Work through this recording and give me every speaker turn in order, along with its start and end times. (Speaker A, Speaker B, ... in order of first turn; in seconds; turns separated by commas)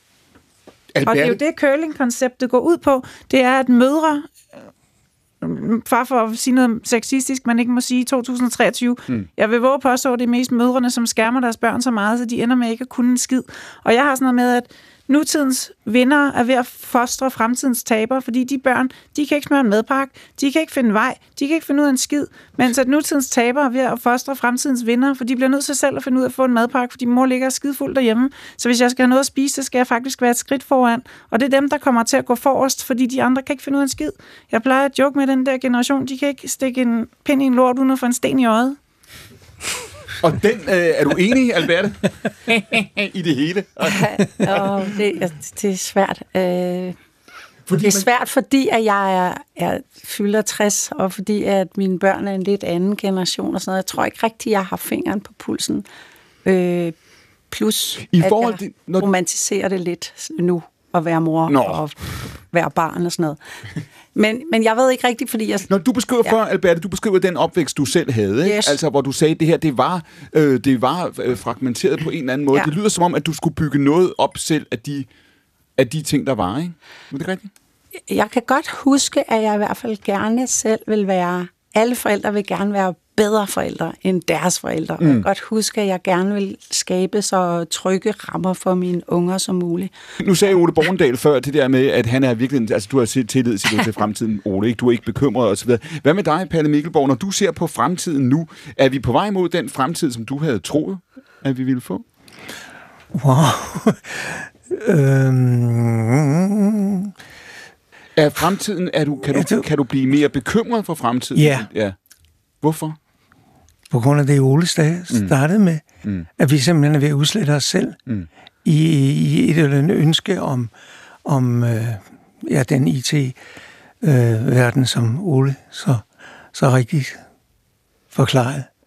Speaker A: 0.9-1.4, Speaker B: 1.1-4.3, Speaker B: 5.4-38.8, Speaker A: 40.2-44.8, Speaker C: 43.9-47.0, Speaker A: 47.7-48.1, Speaker C: 47.8-55.9, Speaker C: 56.5-57.0, Speaker C: 57.5-62.0, Speaker A: 58.0-59.1, Speaker A: 61.5-61.8, Speaker C: 62.5-63.4, Speaker C: 64.2-65.7, Speaker A: 65.7-75.1, Speaker C: 68.4-68.8, Speaker A: 75.8-77.5, Speaker C: 78.1-89.9, Speaker A: 85.0-85.3, Speaker A: 90.2-102.0, Speaker D: 103.1-107.1, Speaker A: 108.2-112.0, Speaker D: 109.3-109.7, Speaker D: 111.3-111.7, Speaker A: 112.6-113.0, Speaker D: 113.9-115.8, Speaker D: 116.4-118.0, Speaker D: 118.6-120.7, Speaker D: 121.2-123.4, Speaker D: 124.0-127.2, Speaker D: 128.1-128.7